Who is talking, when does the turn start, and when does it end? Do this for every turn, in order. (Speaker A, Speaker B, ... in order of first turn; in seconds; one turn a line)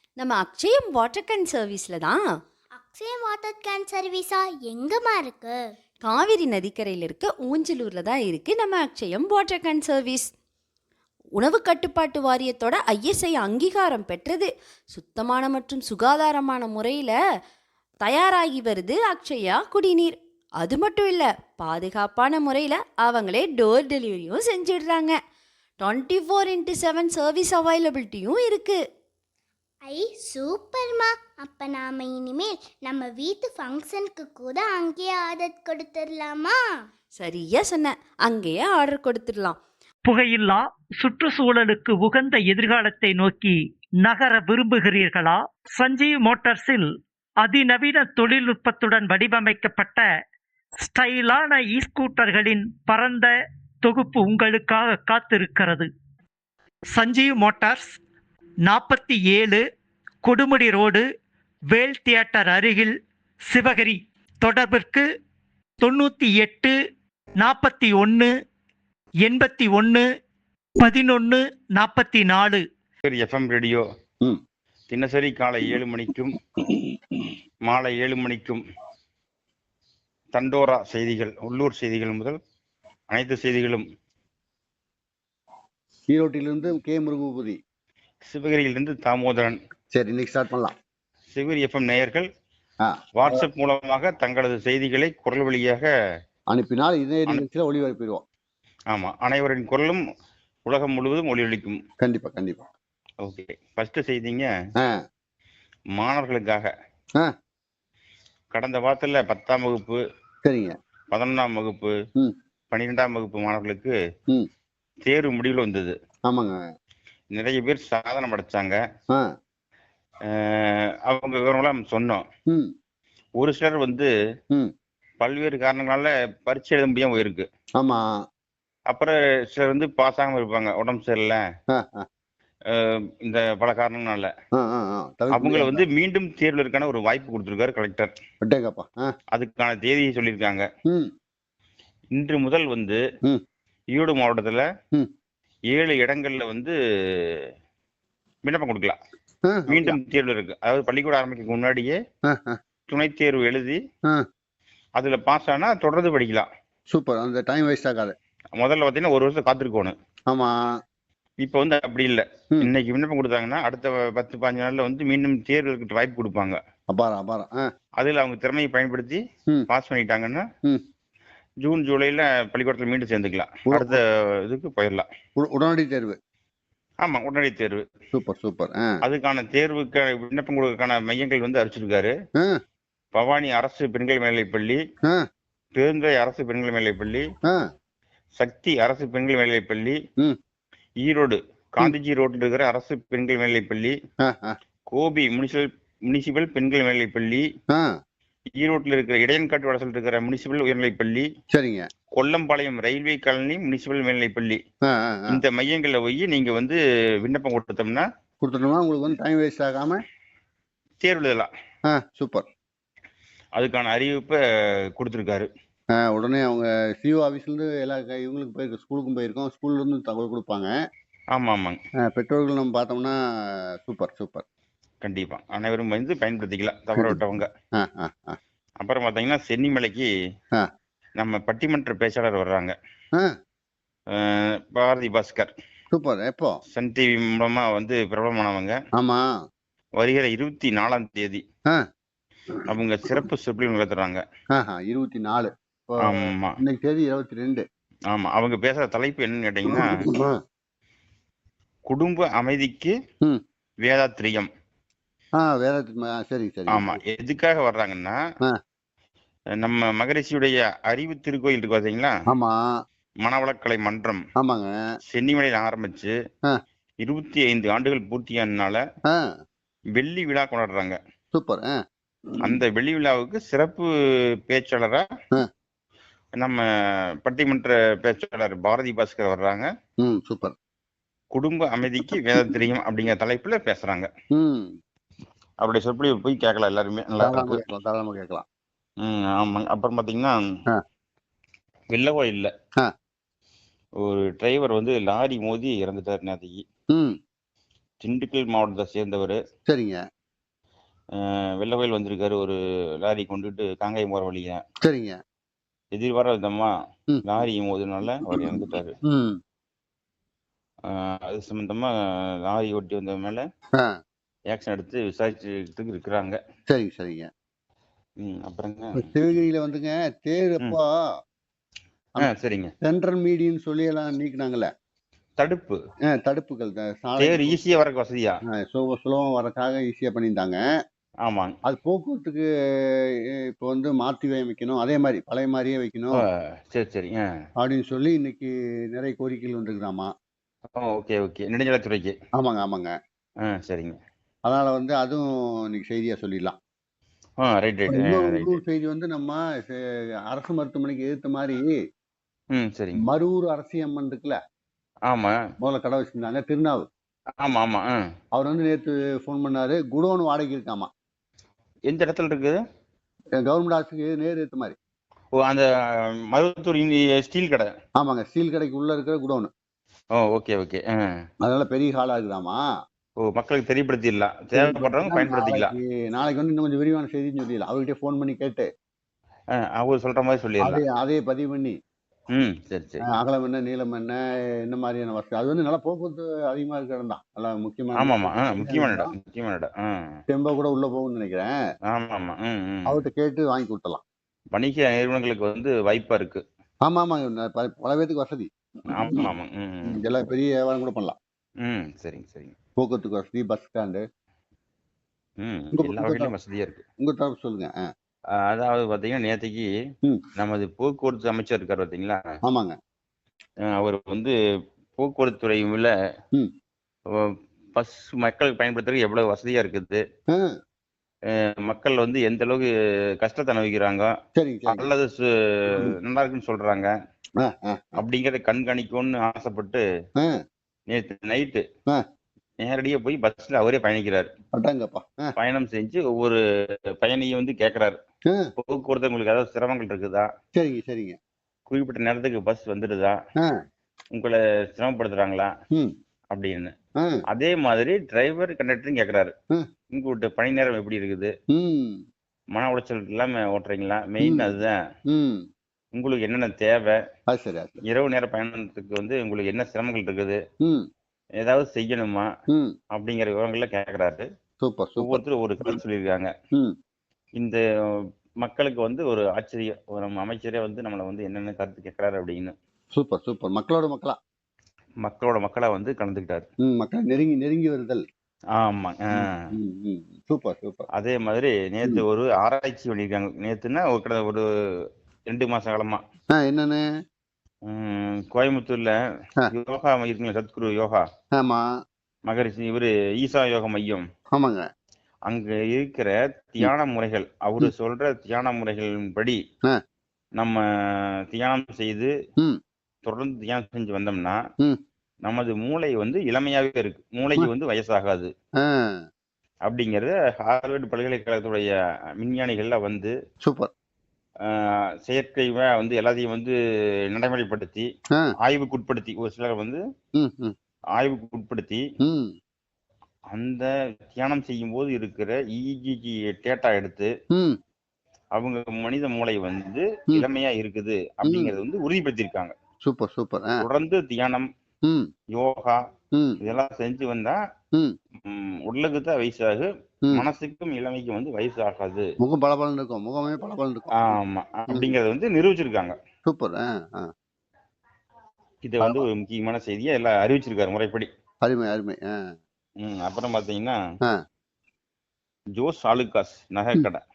Speaker A: 0.2-2.3
Speaker B: 2.8-5.6
Speaker A: 6.0-10.3
Speaker A: 11.4-17.2
Speaker A: 18.0-25.2
Speaker A: 25.8-28.8
Speaker B: 29.9-36.6
Speaker A: 37.2-39.6
Speaker C: 40.0-50.1
Speaker C: 50.8-53.3
Speaker C: 53.8-55.9
Speaker C: 56.9-58.0
Speaker C: 58.7-59.6
Speaker C: 60.2-61.1
Speaker C: 61.7-63.0
Speaker C: 63.5-65.1
Speaker C: 65.8-66.8
Speaker C: 67.4-68.3
Speaker C: 69.2-70.1
Speaker C: 70.8-72.7
Speaker D: 73.0-73.8
Speaker D: 74.9-76.4
Speaker E: 76.6-77.0
Speaker D: 77.7-78.6
Speaker D: 80.3-82.4
Speaker D: 83.1-83.8
Speaker E: 86.1-87.6
Speaker D: 88.3-89.6
Speaker E: 89.9-90.7
Speaker D: 91.3-92.3
Speaker E: 92.8-93.4
Speaker D: 93.2-95.9
Speaker E: 96.5-98.2
Speaker D: 98.9-100.0
Speaker D: 100.7-101.8
Speaker E: 102.0-102.7
Speaker D: 103.2-104.5
Speaker D: 106.0-106.7
Speaker D: 108.5-110.0
Speaker E: 110.4-110.8
Speaker D: 111.1-111.9
Speaker D: 112.7-113.9
Speaker D: 115.1-116.0
Speaker E: 116.3-116.6
Speaker D: 117.3-118.8
Speaker D: 120.3-122.2
Speaker D: 123.4-124.1
Speaker D: 125.2-127.5
Speaker E: 127.8-128.1
Speaker D: 128.9-131.4
Speaker E: 131.7-132.1
Speaker D: 132.8-134.3
Speaker E: 134.6-135.8
Speaker D: 135.3-138.1
Speaker E: 138.4-139.1
Speaker D: 139.3-140.7
Speaker D: 142.1-143.0
Speaker D: 143.9-144.7
Speaker D: 145.7-146.7
Speaker D: 148.4-149.0
Speaker E: 149.5-150.0
Speaker D: 149.7-151.9
Speaker E: 152.3-152.6
Speaker D: 152.9-153.8
Speaker D: 155.0-156.5
Speaker E: 156.9-158.2
Speaker D: 158.6-159.9
Speaker D: 161.4-166.6
Speaker E: 166.9-167.7
Speaker D: 168.0-170.4
Speaker D: 171.6-175.1
Speaker E: 173.7-174.0
Speaker E: 175.4-176.2
Speaker D: 177.0-177.9
Speaker E: 178.1-178.9
Speaker D: 179.0-182.1
Speaker D: 183.2-184.8
Speaker D: 185.8-187.3
Speaker D: 188.4-190.0
Speaker D: 191.0-193.9
Speaker E: 194.2-194.6
Speaker D: 194.9-197.4
Speaker D: 198.6-201.3
Speaker E: 201.5-201.9
Speaker D: 202.2-204.6
Speaker E: 204.9-205.4
Speaker D: 205.3-208.1
Speaker E: 208.4-210.0
Speaker D: 211.0-211.5
Speaker E: 211.9-212.5
Speaker D: 213.6-214.4
Speaker D: 214.9-215.5
Speaker E: 215.9-220.7
Speaker D: 221.3-221.8
Speaker E: 222.1-224.4
Speaker D: 225.0-227.5
Speaker E: 227.8-228.4
Speaker D: 228.8-230.1
Speaker D: 231.2-232.8
Speaker D: 234.2-235.5
Speaker E: 235.9-236.6
Speaker D: 236.8-238.8
Speaker E: 239.0-239.2
Speaker D: 240.0-241.4
Speaker D: 242.7-244.2
Speaker E: 244.6-247.6
Speaker D: 246.1-246.6
Speaker D: 248.1-249.9
Speaker E: 249.7-250.4
Speaker D: 251.9-252.9
Speaker D: 253.8-254.5
Speaker E: 255.4-257.0
Speaker D: 256.7-258.2
Speaker D: 259.6-262.1
Speaker E: 262.3-262.6
Speaker D: 263.2-264.2
Speaker E: 264.4-264.7
Speaker D: 265.1-266.1
Speaker D: 267.1-268.8
Speaker D: 270.0-271.0
Speaker E: 271.3-271.7
Speaker D: 272.4-273.9
Speaker D: 274.5-275.1
Speaker D: 277.2-279.7
Speaker E: 280.0-280.6
Speaker D: 281.3-284.1
Speaker E: 284.3-284.8
Speaker D: 285.6-287.6
Speaker E: 287.2-288.4
Speaker D: 289.1-290.4
Speaker D: 291.9-292.5
Speaker D: 294.0-296.6
Speaker D: 298.0-299.4
Speaker E: 299.7-300.0
Speaker D: 301.2-304.6
Speaker E: 304.9-305.2
Speaker D: 305.9-306.7
Speaker D: 307.2-309.0
Speaker E: 308.3-309.4
Speaker D: 310.9-311.9
Speaker D: 312.4-313.4
Speaker D: 314.5-316.4
Speaker E: 316.7-317.3
Speaker D: 318.2-319.1
Speaker E: 319.0-321.0
Speaker D: 322.2-322.7
Speaker E: 322.8-324.7
Speaker D: 325.4-325.8
Speaker E: 326.1-327.6
Speaker D: 327.2-328.4
Speaker E: 328.5-330.6
Speaker D: 331.3-331.6
Speaker E: 331.6-336.2
Speaker D: 336.2-337.2
Speaker E: 337.6-340.1
Speaker D: 340.8-342.1
Speaker E: 342.4-342.9
Speaker D: 343.5-344.0
Speaker E: 344.5-346.6
Speaker D: 347.4-348.6
Speaker E: 347.9-351.8
Speaker D: 352.6-353.1
Speaker E: 353.0-354.4
Speaker D: 355.1-355.4
Speaker E: 355.6-356.9
Speaker D: 357.4-358.0
Speaker E: 358.4-360.9
Speaker D: 361.9-362.6
Speaker E: 363.4-364.8
Speaker D: 365.4-365.7
Speaker D: 366.3-367.7
Speaker E: 368.0-369.5
Speaker D: 370.2-370.9
Speaker E: 371.4-372.6
Speaker D: 373.2-375.7
Speaker E: 374.6-378.7
Speaker D: 379.7-380.8
Speaker E: 380.6-381.8
Speaker D: 382.3-383.0
Speaker E: 383.1-389.1
Speaker D: 388.0-389.9
Speaker E: 390.3-391.5
Speaker D: 391.9-393.0
Speaker E: 392.9-394.0
Speaker D: 394.6-396.4
Speaker E: 396.9-399.3
Speaker D: 398.9-400.1
Speaker E: 399.9-401.2
Speaker D: 401.6-402.5
Speaker E: 402.8-404.0
Speaker D: 405.4-406.8
Speaker E: 405.8-406.3
Speaker E: 407.0-407.8
Speaker D: 408.5-409.7
Speaker D: 410.4-412.2
Speaker E: 412.4-412.8
Speaker D: 413.7-414.3
Speaker D: 415.0-415.9
Speaker D: 417.2-420.0
Speaker D: 421.6-422.7
Speaker D: 423.2-424.1
Speaker E: 424.4-424.9
Speaker D: 424.7-426.9
Speaker E: 427.4-428.0
Speaker D: 428.0-429.8
Speaker D: 430.9-431.6
Speaker D: 432.6-434.3
Speaker E: 434.6-435.3
Speaker D: 435.4-436.4
Speaker D: 437.0-438.0
Speaker D: 438.6-440.3
Speaker E: 440.6-441.2
Speaker D: 441.7-443.2
Speaker D: 444.1-445.5
Speaker D: 446.3-446.7
Speaker D: 447.3-449.3
Speaker D: 449.9-451.3
Speaker E: 451.5-452.0
Speaker D: 452.6-454.8
Speaker E: 454.2-454.5
Speaker E: 455.1-455.4
Speaker D: 455.9-456.9
Speaker E: 457.3-457.8
Speaker D: 457.9-460.4
Speaker D: 461.4-462.3
Speaker D: 462.9-464.3
Speaker E: 464.6-465.8
Speaker D: 465.0-466.3
Speaker D: 468.4-472.6
Speaker E: 472.9-474.2
Speaker D: 475.0-476.5
Speaker E: 476.6-478.0
Speaker D: 478.6-479.3
Speaker E: 479.2-480.9
Speaker D: 481.0-484.4
Speaker D: 485.3-486.0
Speaker E: 486.3-486.8
Speaker D: 487.7-488.9
Speaker D: 489.6-491.0
Speaker E: 491.4-491.7
Speaker D: 492.3-494.1
Speaker E: 494.4-494.6
Speaker D: 495.3-499.4
Speaker D: 501.3-502.1
Speaker D: 503.1-504.4
Speaker D: 505.3-508.3
Speaker E: 508.6-509.0
Speaker D: 509.7-511.7
Speaker D: 512.2-513.1
Speaker D: 514.5-516.5
Speaker D: 517.1-517.9
Speaker D: 518.4-519.8
Speaker E: 520.2-520.5
Speaker D: 521.0-521.8
Speaker E: 522.0-522.3
Speaker D: 523.3-527.1
Speaker D: 528.4-532.5
Speaker E: 531.3-531.6
Speaker E: 532.8-533.6
Speaker D: 533.6-534.5
Speaker D: 535.3-535.8
Speaker D: 536.4-537.4
Speaker D: 538.3-542.1
Speaker E: 542.2-544.2
Speaker D: 544.0-546.0
Speaker E: 546.2-547.1
Speaker D: 548.6-551.1
Speaker E: 551.5-552.2
Speaker D: 552.8-553.8
Speaker D: 555.6-557.0